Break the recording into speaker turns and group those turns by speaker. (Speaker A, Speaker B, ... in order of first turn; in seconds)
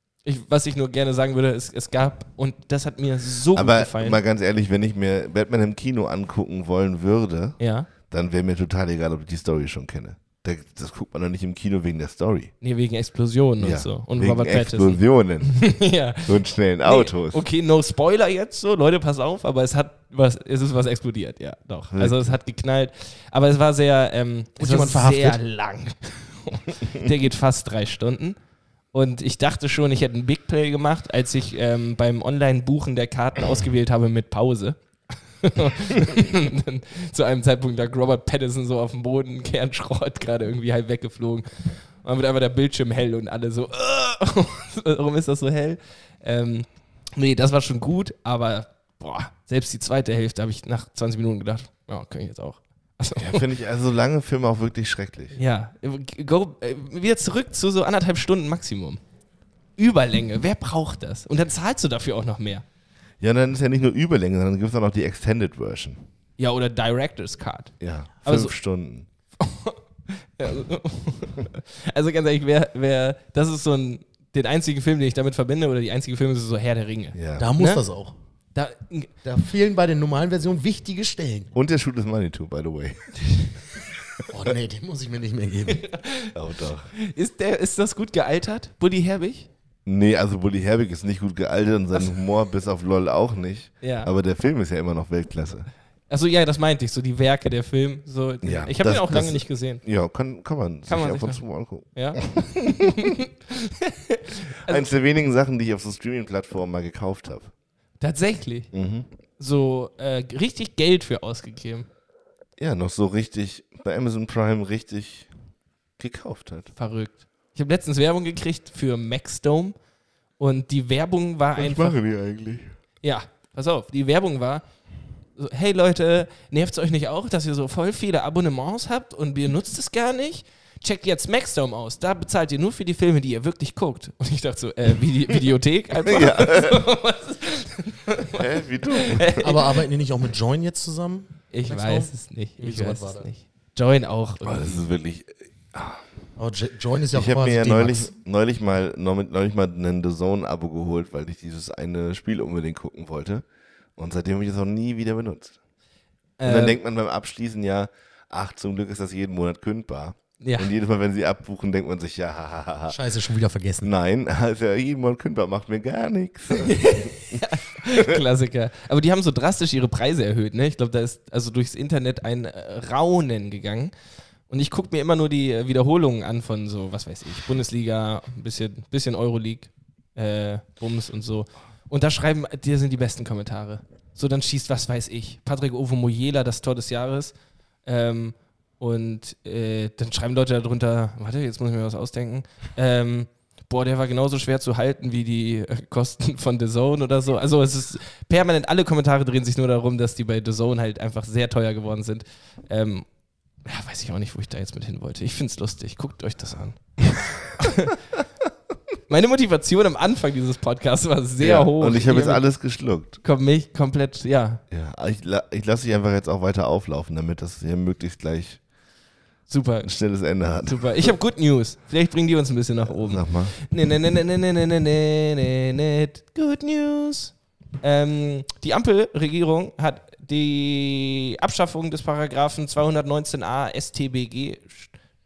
Speaker A: 0.2-4.2, 7.6-7.9, 12.6-28.4, 28.9-34.8, 35.4-41.5, 42.0-53.4, 55.4-59.0, 59.8-62.6, 66.4-68.5, 69.4-77.8, 78.5-79.1, 85.7-86.3, 87.0-89.5, 93.8-94.1, 96.1-99.8, 100.9-104.9, 108.0-108.7, 109.4-111.9, 116.8-119.8, 120.4-122.0, 123.0-124.6, 125.4-139.8, 141.5-144.8, 156.4-156.8, 160.4-160.7, 166.6-173.9, 174.5-187.3, 187.9-203.1, 203.7-207.0, 207.6-208.0, 209.1-212.4, 213.2-214.6, 219.5-219.9, 220.7-234.9
Speaker B: 3.5-12.5, 13.6-15.7, 16.3-17.4, 21.9-22.2, 53.2-55.4, 63.2-66.0, 67.8-69.1, 77.1-77.5, 81.5-83.1, 86.3-86.9, 89.9-95.7, 98.4-103.0, 104.7-107.5, 108.7-109.1, 112.6-115.3, 116.0-116.7, 121.6-122.8, 136.1-136.8, 138.3-139.4, 144.4-146.0, 147.1-153.4, 154.0-155.6, 156.4-163.0, 163.8-167.4, 211.4-213.2, 214.7-218.6, 219.8-221.1, 223.0-223.6
Speaker C: 24.6-25.4, 77.4-78.2, 79.2-81.5, 84.3-85.8, 139.4-143.3, 146.4-148.1, 162.9-163.9